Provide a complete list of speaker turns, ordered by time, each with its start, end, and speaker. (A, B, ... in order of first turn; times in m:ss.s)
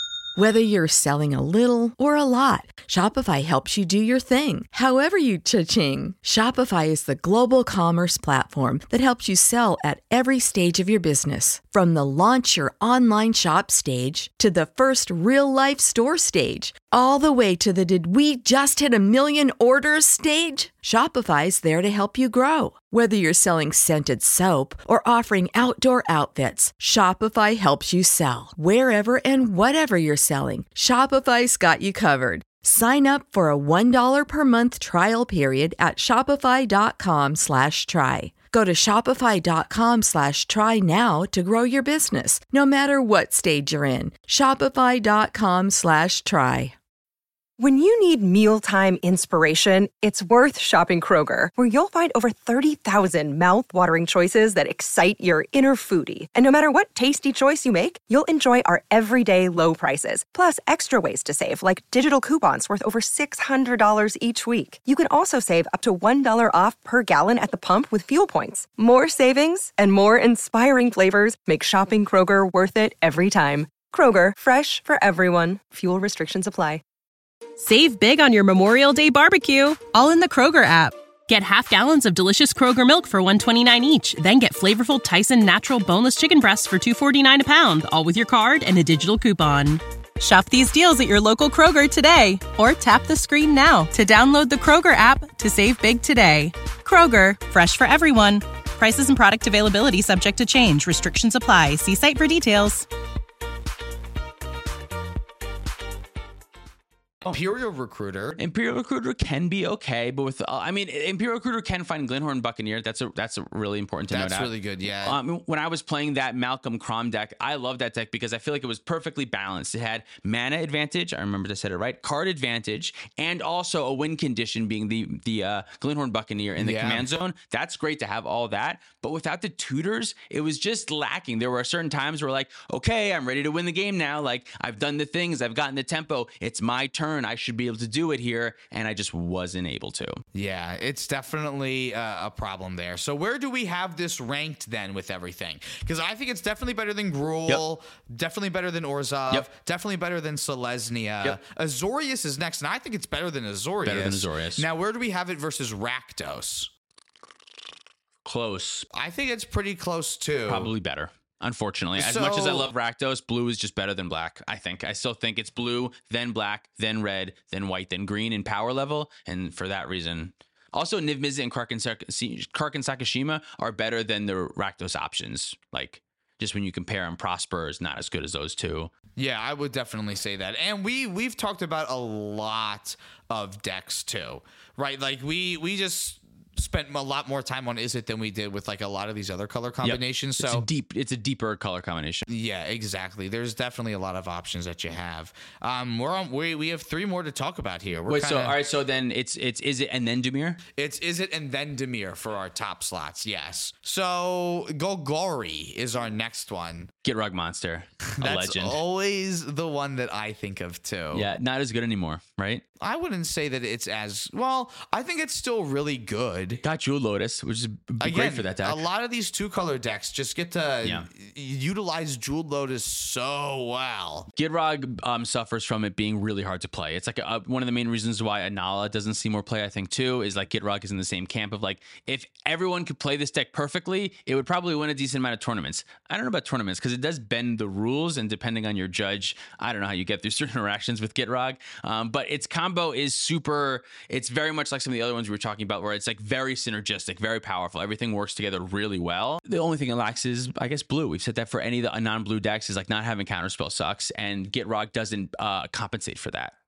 0:00.4-0:46.7 A
0:47.6-1:16.8 B
1:17.6-1:42.9 C
1:47.2-1:48.4 D
1:48.4-1:54.5 E
1:54.1-1:55.2 D
1:55.0-2:20.2 E
2:06.6-2:07.0 D
2:20.3-2:36.7 D
2:33.8-2:34.6 E
2:38.2-2:38.9 E
2:38.9-2:40.7 D
2:40.5-2:58.9 E
2:42.0-2:42.7 D
2:59.2-3:10.7 D
3:09.8-3:12.3 E
3:12.3-3:18.6 D
3:18.1-3:20.6 E
3:20.7-3:26.9 D
3:27.0-3:28.8 E
3:28.1-3:31.3 D
3:31.1-3:32.6 E
3:32.8-3:36.6 D
3:36.6-3:38.8 E
3:38.0-3:44.3 D
3:44.4-4:16.5 E